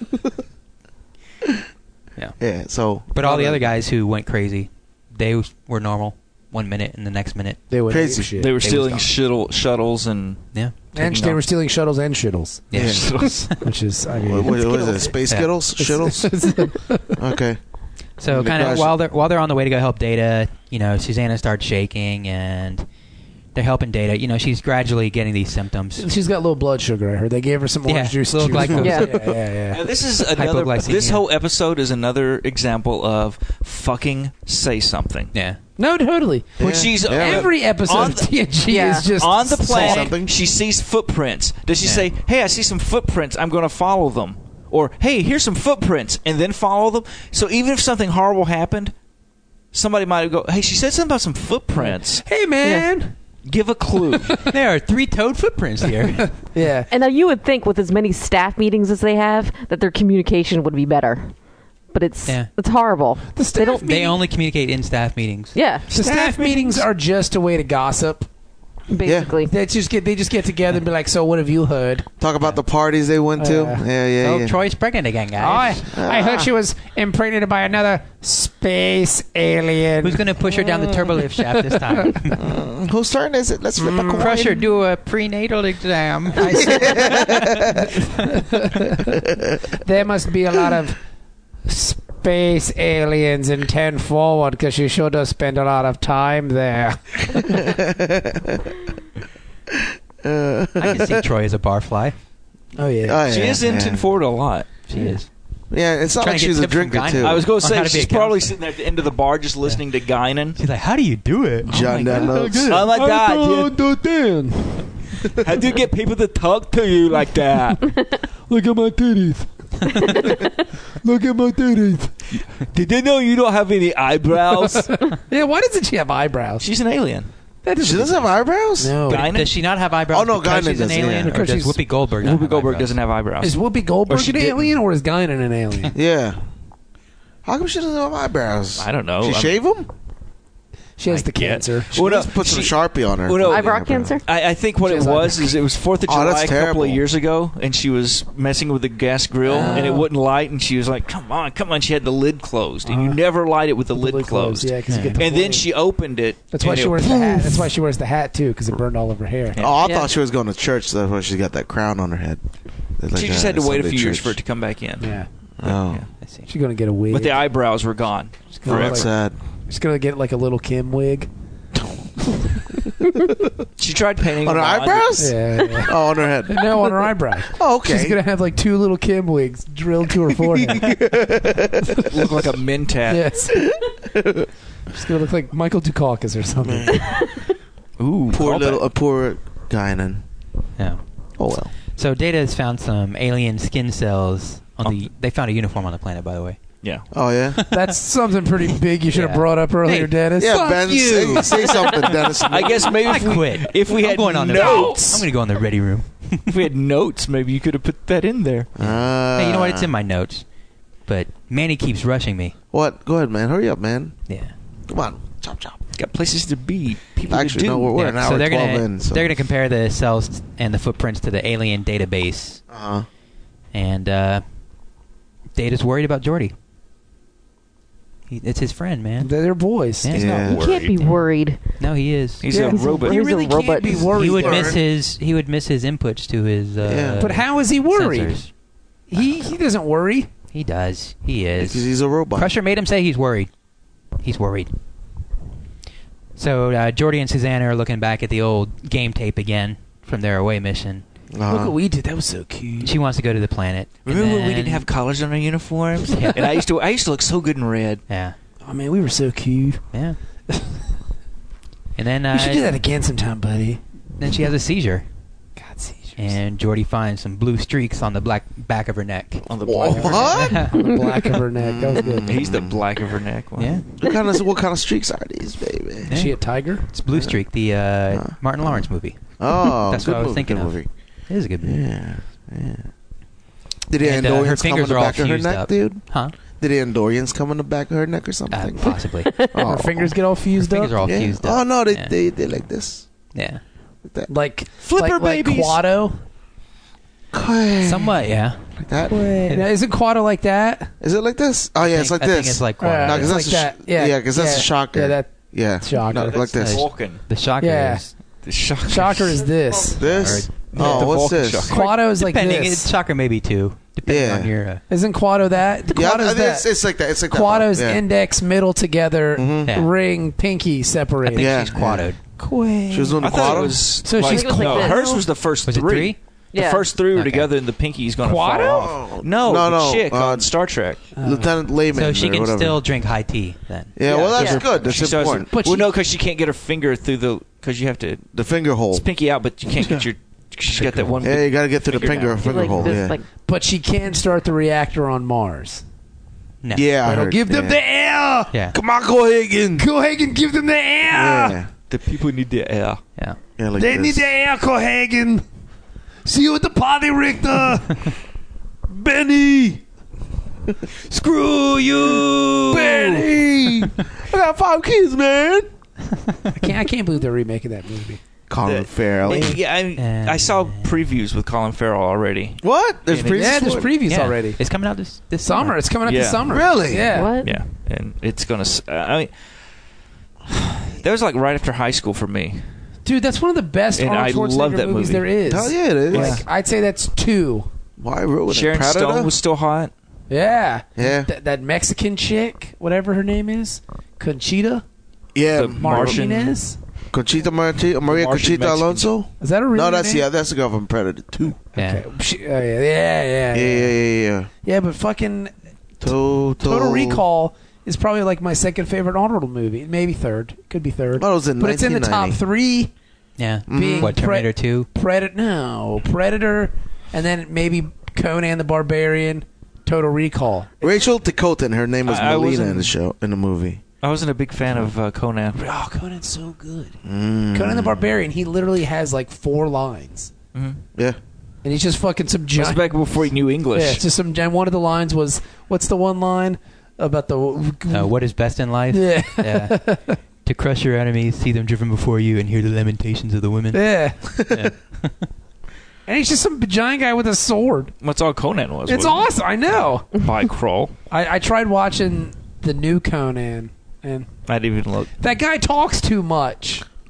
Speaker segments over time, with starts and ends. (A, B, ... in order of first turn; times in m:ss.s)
0:02.4-0:03.1 A
0:03.1-0:07.6 B
0:03.2-0:03.6 C
0:07.7-0:08.5 C
0:07.9-0:08.3 A
0:08.4-0:11.4 D
0:08.6-0:09.1 B
0:11.0-0:12.6 C
0:12.7-0:13.5 B
0:12.7-0:13.0 A
0:12.7-0:13.6 D
0:13.5-0:15.2 C
0:14.2-0:16.4 A
0:15.8-0:17.2 C
0:17.2-0:17.6 A
0:18.2-0:22.8 B
0:18.3-0:18.9 A
0:23.5-0:26.1 B
0:26.0-0:29.8 C
0:27.8-0:29.1 B
0:28.8-0:29.2 E
0:29.7-0:35.3 D
0:30.3-0:31.2 B
0:35.3-0:35.6 B
0:35.8-0:40.1 C
0:36.6-0:37.5 A
0:36.6-0:38.3 D
0:38.7-0:39.1 E
0:39.0-0:48.9 D
0:39.7-0:40.3 A
0:49.7-0:52.3 D
0:51.7-0:53.1 C
0:52.6-0:52.9 E
0:53.4-0:54.4 D
0:54.1-0:54.5 C
0:54.5-0:56.3 B
0:56.4-0:56.9 C
0:56.9-1:01.4 E
1:01.9-1:03.9 E
1:03.3-1:04.2 C
1:03.7-1:05.5 B
1:05.5-1:05.9 E
1:05.9-1:06.9 D
1:05.9-1:08.3 C
1:08.9-1:09.5 E
1:09.0-1:09.3 A
1:09.4-1:12.1 C
1:12.2-1:14.6 A
1:13.4-1:13.8 C
1:14.2-1:15.8 B
1:15.4-1:20.3 C
1:15.8-1:16.5 A
1:20.0-1:22.4 B
1:20.7-1:21.1 A
1:21.4-1:22.2 C
1:22.4-1:24.6 A
1:23.8-1:24.5 C
1:24.1-1:28.0 B
1:26.4-1:27.9 A
1:26.5-1:27.0 C
1:28.2-1:29.2 C
1:29.8-1:31.0 C
1:31.6-1:37.7 C
1:37.3-1:38.7 A
1:39.8-1:41.3 A
1:40.8-1:42.1 B
1:42.8-1:43.2 C
1:43.0-1:44.1 A
1:43.3-1:44.7 D
1:44.9-1:45.3 B
1:45.7-1:47.4 A
1:46.2-1:48.6 B
1:47.2-1:50.6 D
1:50.5-1:51.7 B
1:51.7-1:52.9 A
1:51.7-1:53.8 D
1:52.1-1:55.5 C
1:55.4-1:57.9 D
1:58.5-2:00.4 C
1:59.9-2:00.5 E
2:01.0-2:02.2 C
2:02.3-2:05.0 D
2:04.5-2:06.6 C
2:06.6-2:07.3 D
2:07.6-2:09.3 C
2:07.8-2:09.0 A
2:09.1-2:09.5 D
2:09.2-2:12.9 B
2:10.1-2:11.4 A
2:11.3-2:11.8 C
2:12.2-2:14.8 D
2:13.4-2:15.9 C
2:15.9-2:16.4 A
2:17.4-2:19.9 A
2:18.8-2:19.6 D
2:21.0-2:21.9 C
2:21.1-2:37.4 D
2:21.9-2:24.2 A
2:23.4-2:24.2 E
2:24.8-2:25.5 C
2:26.0-2:27.0 A
2:29.4-2:30.1 C
2:32.8-2:33.2 C
2:33.9-2:35.7 C
2:34.9-2:35.2 B
2:36.5-2:39.6 C
2:39.5-2:39.8 D
2:39.6-2:42.4 A
2:39.8-2:40.1 E
2:43.0-2:44.4 A
2:43.1-2:46.0 D
2:45.0-2:45.3 C
2:45.6-2:46.0 A
2:46.2-2:46.5 B
2:46.5-2:47.4 C
2:47.1-2:49.0 D
2:48.6-2:49.1 C
2:48.6-2:49.4 A
2:49.7-2:51.3 C
2:51.7-2:52.1 A
2:53.8-2:55.3 D
2:54.4-2:58.2 A
2:55.2-3:01.0 C
3:00.3-3:02.4 A
3:02.1-3:03.2 D
3:03.1-3:03.6 C
3:03.6-3:04.5 A
3:04.9-3:07.2 C
3:06.6-3:07.2 A
3:08.0-3:08.8 D
3:08.3-3:10.2 A
3:11.4-3:11.7 A
3:11.9-3:16.6 B
3:17.1-3:17.6 A
3:17.6-3:17.9 B
3:17.7-3:22.1 C
3:19.1-3:20.1 B
3:20.4-3:22.9 A
3:20.9-3:22.1 B
3:22.4-3:25.2 D
3:23.0-3:26.5 B
3:24.5-3:25.2 C
3:26.5-3:28.7 D
3:28.8-3:29.9 A
3:28.8-3:30.4 B
3:31.0-3:32.5 B
3:32.7-3:34.2 A
3:34.3-3:34.5 B
3:34.9-3:35.8 A
3:36.0-3:38.1 D
3:37.3-3:39.3 A
3:38.0-3:42.6 B
3:42.7-3:43.1 A
3:43.7-3:44.4 B
3:45.5-3:46.5 B
3:48.3-3:49.3 B
3:49.2-3:50.5 C
3:50.0-3:50.5 B
3:50.1-3:50.7 A
3:50.2-3:51.1 D
3:50.5-3:51.6 E
3:51.8-3:52.5 B
3:52.4-3:53.2 D
3:52.5-3:54.8 C
3:52.6-3:54.1 E
3:53.8-3:54.8 A
3:54.1-3:58.5 B
3:56.8-3:57.2 A
3:57.2-3:58.4 C
3:59.1-4:00.3 C
3:59.2-3:59.4 B
4:00.5-4:03.5 B
4:01.6-4:02.5 A
4:04.2-4:04.7 B
4:06.4-4:11.0 B
4:11.3-4:11.7 A
4:11.5-4:13.0 C
4:12.8-4:14.9 B
4:14.0-4:18.0 D
4:16.1-4:16.4 B
4:18.1-4:18.3 B
4:18.6-4:19.8 C
4:20.5-4:20.8 C
4:22.0-4:22.8 B
4:22.3-4:23.8 C
4:24.2-4:25.0 B
4:25.6-4:26.3 C
4:26.2-4:29.5 B
4:29.5-4:30.5 D
4:29.6-4:30.8 A
4:29.9-4:32.3 C
4:30.3-4:30.7 B
4:30.8-4:31.1 E
4:31.6-4:32.8 A
4:32.2-4:33.8 D
4:33.6-4:33.8 B
4:34.0-4:36.2 A
4:36.1-4:41.8 B
4:36.1-4:36.8 C
4:37.1-4:37.4 A
4:38.1-4:38.9 A
4:39.4-4:40.9 A
4:41.6-4:42.9 A
4:43.9-4:46.0 A
4:44.0-4:46.3 B
4:46.5-4:50.2 A
4:48.5-4:49.4 B
4:49.6-4:51.0 C
4:50.6-4:52.1 B
4:51.0-4:53.0 A
4:53.3-4:53.6 B
4:54.0-4:54.3 A
4:54.3-4:56.2 C
4:54.8-4:55.8 D
4:57.3-4:58.2 A
4:57.8-4:58.7 B
4:58.8-4:59.6 A
4:59.5-5:00.9 C
5:01.0-5:06.8 A
5:01.8-5:03.4 B
5:02.8-5:06.4 C
5:06.2-5:07.2 D
5:06.6-5:08.1 B
5:07.6-5:08.0 C
5:08.4-5:09.5 D
5:08.9-5:10.3 C
5:10.0-5:11.7 A
5:10.0-5:11.1 B
5:10.7-5:11.7 D
5:11.7-5:12.9 C
5:11.7-5:14.8 B
5:14.0-5:14.5 A
5:14.9-5:16.7 C
5:15.9-5:18.0 A
5:17.3-5:21.7 C
5:19.4-5:19.7 A
5:19.7-5:19.9 B
5:21.2-5:22.2 B
5:21.4-5:22.1 A
5:22.4-5:25.1 C
5:22.9-5:23.9 A
5:23.2-5:31.0 D
5:24.2-5:25.2 E
5:25.6-5:26.2 B
5:26.5-5:26.9 E
5:27.1-5:27.5 B
5:28.2-5:29.0 C
5:28.8-5:30.5 A
5:31.2-5:31.5 C
5:31.2-5:32.8 A
5:31.9-5:33.9 B
5:34.0-5:35.6 A
5:34.0-5:38.3 D
5:34.4-5:34.6 E
5:34.8-5:35.0 B
5:35.5-5:35.9 C
5:38.3-5:39.0 A
5:38.9-5:43.0 D
5:39.7-5:40.1 A
5:40.9-5:41.1 B
5:41.2-5:43.1 A
5:42.4-5:43.3 E
5:43.4-5:45.8 C
5:46.6-5:46.9 B
5:46.7-5:47.8 A
5:47.0-5:48.5 C
5:48.5-5:48.8 B
5:48.7-5:49.8 A
5:49.8-5:51.6 C
5:51.1-5:51.7 A
5:51.9-5:53.0 D
5:53.6-5:54.3 A
5:53.8-5:55.4 C
5:56.2-5:58.1 C
5:58.9-5:59.8 A
6:01.1-6:02.8 D
6:02.0-6:05.7 A
6:02.7-6:03.4 C
6:06.1-6:06.5 B
6:06.5-6:08.2 C
6:08.5-6:09.6 A
6:08.6-6:13.8 D
6:09.3-6:09.5 C
6:10.0-6:11.0 B
6:12.6-6:13.9 A
6:13.3-6:14.6 C
6:14.0-6:15.8 B
6:15.4-6:17.4 C
6:16.0-6:16.7 D
6:16.5-6:17.1 A
6:17.1-6:17.5 E
6:17.4-6:19.3 D
6:20.5-6:22.6 D
6:23.0-6:27.7 C
6:24.0-6:25.3 D
6:25.4-6:26.4 A
6:26.1-6:26.4 D
6:28.0-6:29.3 A
6:28.5-6:29.9 D
6:30.3-6:34.8 C
6:31.0-6:31.3 A
6:35.3-6:36.2 A
6:35.5-6:36.6 D
6:35.8-6:36.8 C
6:37.1-6:41.6 A
6:38.1-6:39.1 D
6:39.4-6:40.2 C
6:41.8-6:42.0 B
6:41.8-6:43.9 C
6:43.5-6:44.5 A
6:44.6-6:45.5 C
6:46.0-6:47.2 A
6:46.6-6:52.9 C
6:51.2-6:52.4 A
6:53.4-6:54.9 B
6:53.7-6:54.2 A
6:53.7-7:00.9 C
7:00.8-7:03.8 A
7:02.0-7:02.9 D
7:04.0-7:05.6 D
7:05.5-7:07.0 C
7:07.0-7:08.1 A
7:07.5-7:10.3 C
7:10.5-7:10.8 D
7:11.6-7:12.9 C
7:12.5-7:14.0 D
7:13.7-7:18.1 C
7:17.9-7:19.8 B
7:18.9-7:20.2 C
7:20.4-7:25.3 B
7:23.7-7:24.3 C
7:26.0-7:27.9 C
7:28.0-7:30.9 D
7:28.9-7:30.2 C
7:31.1-7:34.3 C
7:34.5-7:35.1 D
7:35.2-7:36.8 C